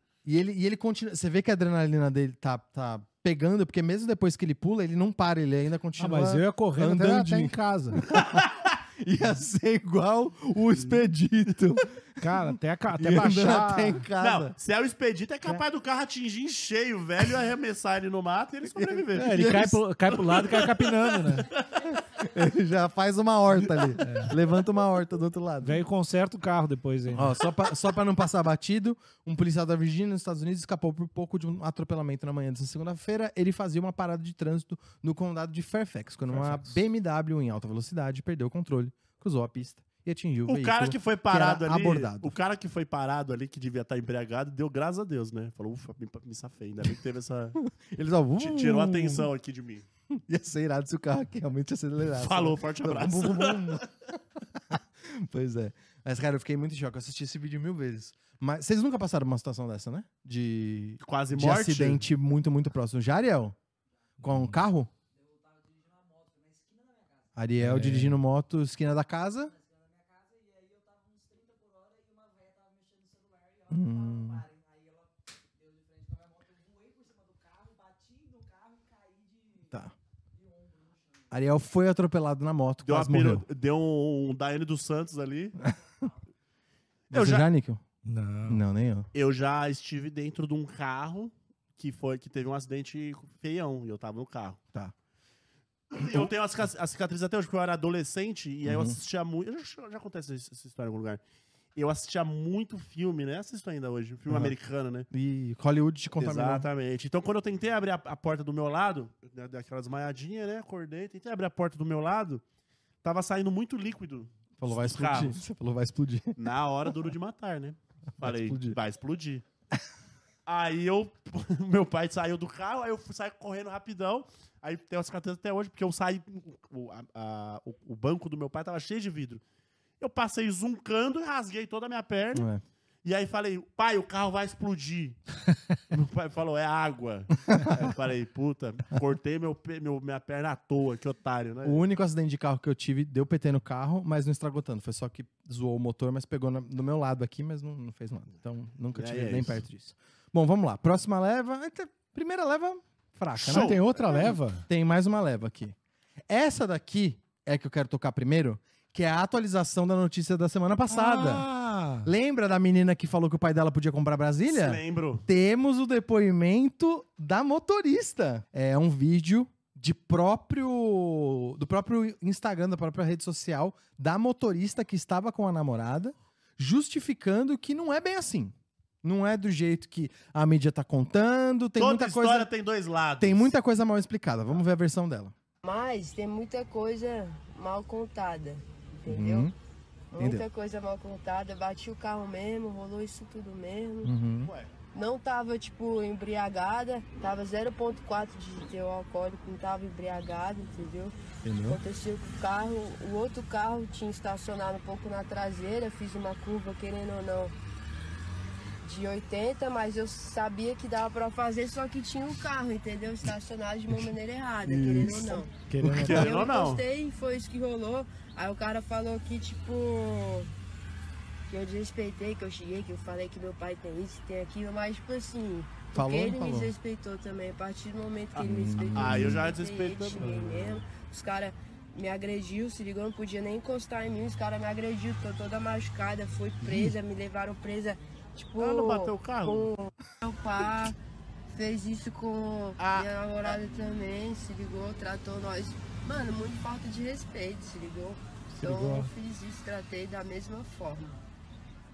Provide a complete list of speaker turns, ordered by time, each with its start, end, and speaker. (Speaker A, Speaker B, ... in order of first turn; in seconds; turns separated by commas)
Speaker A: 0.2-8.5, Speaker B: 6.0-8.1, Speaker A: 9.0-14.5, Speaker B: 12.2-14.1, Speaker C: 14.2-21.9, Speaker A: 18.7-19.8, Speaker B: 19.1-21.5, Speaker A: 21.9-25.8, Speaker B: 24.0-24.3, Speaker B: 25.6-27.4, Speaker A: 27.1-42.3, Speaker B: 36.3-36.7, Speaker C: 40.5-47.6, Speaker A: 47.6-49.3, Speaker C: 48.4-49.8, Speaker A: 50.1-53.9, Speaker C: 52.2-53.8, Speaker A: 54.5-63.5, Speaker C: 61.0-62.0, Speaker B: 64.2-64.5, Speaker A: 64.2-64.9, Speaker A: 67.3-69.5, Speaker B: 67.6-68.2, Speaker A: 73.6-74.5, Speaker A: 79.5-79.9, Speaker A: 81.3-83.4, Speaker C: 82.8-85.6, Speaker A: 85.6-86.1, Speaker C: 87.1-87.5, Speaker A: 87.1-87.8, Speaker B: 88.0-88.6, Speaker A: 88.5-89.1, Speaker C: 89.1-94.6, Speaker C: 95.9-101.2, Speaker A: 96.0-96.3, Speaker A: 98.6-99.0, Speaker C: 101.8-105.1, Speaker A: 104.3-104.5, Speaker A: 105.1-106.7, Speaker C: 106.2-112.4, Speaker C: 113.0-115.4, Speaker A: 114.6-116.4, Speaker C: 116.4-119.4, Speaker A: 118.2-118.8, Speaker C: 120.5-129.4, Speaker C: 130.0-132.5, Speaker A: 132.3-132.6, Speaker C: 133.0-135.2, Speaker C: 135.9-141.8, Speaker A: 141.6-153.8, Speaker C: 148.9-149.6, Speaker C: 153.3-154.4, Speaker B: 153.4-154.6, Speaker A: 154.7-155.7, Speaker A: 156.3-161.5, Speaker B: 160.9-162.1, Speaker A: 162.0-182.5, Speaker C: 164.5-165.2, Speaker C: 181.8-183.5, Speaker A: 183.2-185.3, Speaker D: 185.6-189.5, Speaker A: 189.1-189.5, Speaker D: 190.1-194.1, Speaker A: 190.2-190.4, Speaker A: 194.0-194.5, Speaker C: 194.4-194.7, Speaker D: 194.9-207.5, Speaker A: 201.4-201.8, Speaker D: 208.8-215.5, Speaker A: 214.7-216.3, Speaker B: 215.7-216.4, Speaker C: 215.9-216.8, Speaker D: 216.1-220.5, Speaker D: 221.5-241.0, Speaker A: 225.9-226.7, Speaker C: 228.4-230.8, Speaker A: 228.4-229.4, Speaker A: 236.6-236.9, Speaker C: 238.6-239.7, Speaker D: 241.5-251.2, Speaker C: 242.8-243.5, Speaker B: 248.5-249.1